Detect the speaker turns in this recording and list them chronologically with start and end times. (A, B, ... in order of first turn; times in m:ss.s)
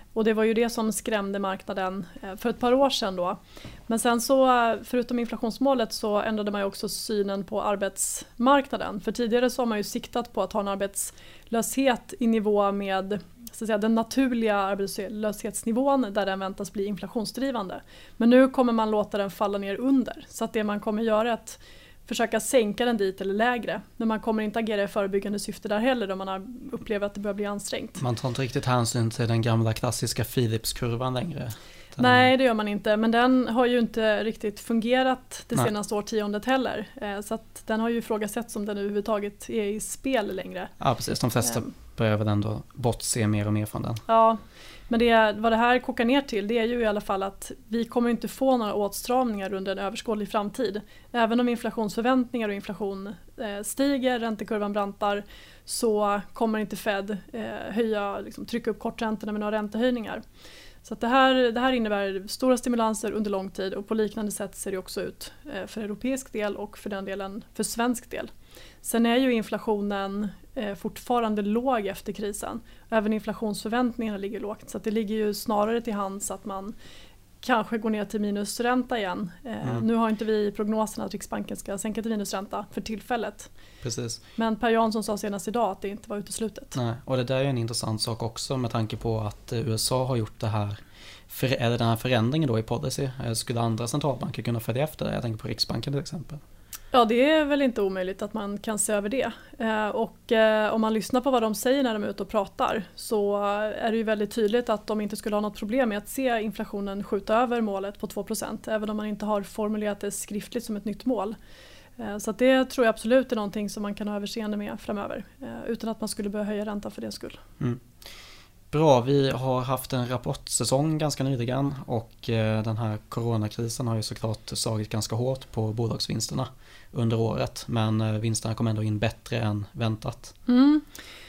0:00.1-0:28.0 A
0:28.0-0:32.3 B
0:32.0-0:40.7 A
0:40.8-0:44.0 B
0:41.4-0:41.7 A
0:44.1-1:00.2 A
1:00.8-1:08.3 A
1:08.8-1:16.7 A
1:17.4-1:23.5 A
1:23.8-1:24.2 B
1:24.4-1:26.8 A
1:26.7-1:36.4 B
1:36.9-1:51.4 A
1:52.0-1:57.4 A
1:58.7-2:10.3 B
2:10.5-2:10.8 A